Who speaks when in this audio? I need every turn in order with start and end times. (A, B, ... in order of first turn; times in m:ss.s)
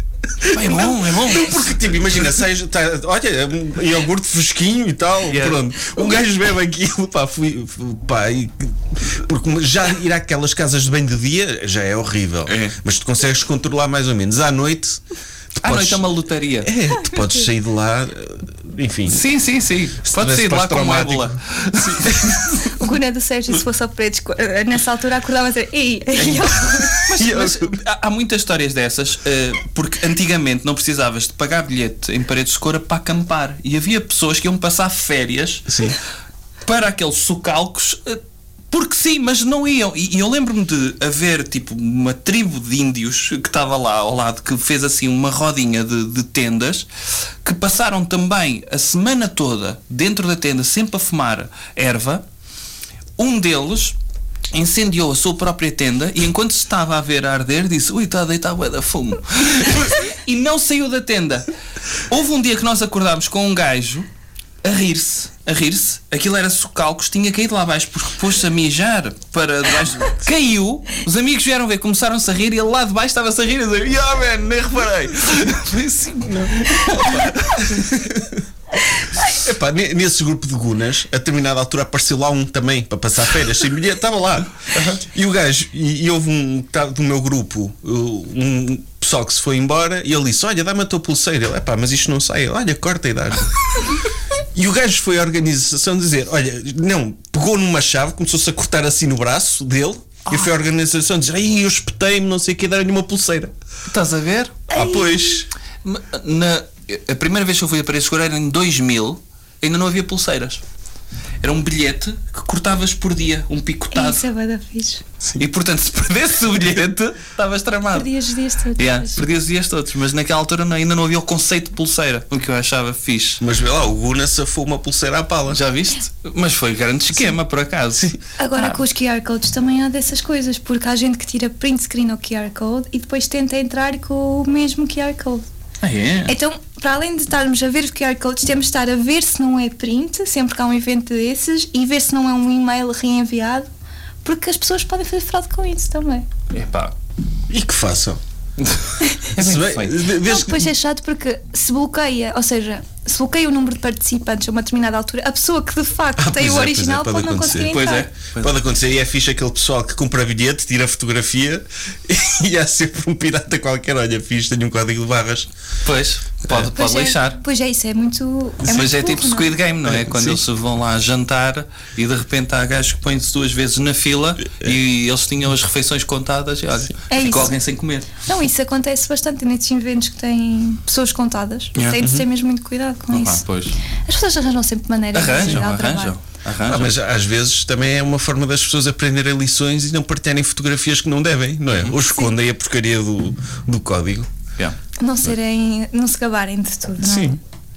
0:00.4-0:15.0 A
0:00.5-0:01.7 B
0:05.3-0:05.6 B
0:12.5-0:12.8 B
0:15.6-0:16.0 A
0:15.6-0:16.7 B
0:16.6-0:19.2 A
0:17.1-0:17.4 C
0:19.1-0:22.6 B
0:20.0-0:22.6 A
0:22.7-0:27.1 C
0:26.9-0:35.7 B
0:27.1-0:27.8 A
0:35.7-0:36.0 A
0:36.6-0:38.2 B
0:38.7-0:46.9 B
0:47.4-0:52.2 B
0:53.2-0:54.0 B
0:54.5-1:01.5 B
1:02.1-1:04.1 B
1:04.6-1:18.0 B
1:16.3-1:18.4 A
1:19.2-1:34.0 A
1:24.7-1:25.0 B
1:34.5-1:43.5 A
1:43.9-1:44.7 B
1:44.7-1:45.4 C
1:44.7-1:45.5 A
1:45.8-1:50.6 B
1:51.4-1:54.2 B
1:53.9-1:55.0 C
1:55.4-1:58.1 B
1:57.9-1:59.2 C
1:58.8-2:03.4 B
2:03.4-2:05.6 A
2:05.5-2:08.8 B
2:08.4-2:15.5 C
2:15.8-2:16.3 B
2:16.2-2:23.7 C
2:24.2-2:26.3 C
2:26.5-2:26.9 B
2:27.5-2:28.2 A
2:28.6-2:30.1 B
2:29.4-2:30.7 A
2:30.1-2:38.1 C
2:36.2-2:37.8 A
2:37.6-2:38.6 B
2:38.4-2:45.5 A
2:45.8-2:47.4 B
2:46.6-2:49.5 C
2:48.7-2:58.1 B
2:49.8-2:50.4 A
2:57.1-2:57.5 C
2:58.2-3:03.4 C
3:01.8-3:02.0 B
3:02.0-3:02.2 A
3:03.1-3:03.8 B
3:04.0-3:06.1 C
3:05.1-3:06.9 B
3:06.6-3:14.3 A
3:15.0-3:17.4 C
3:17.0-3:17.4 A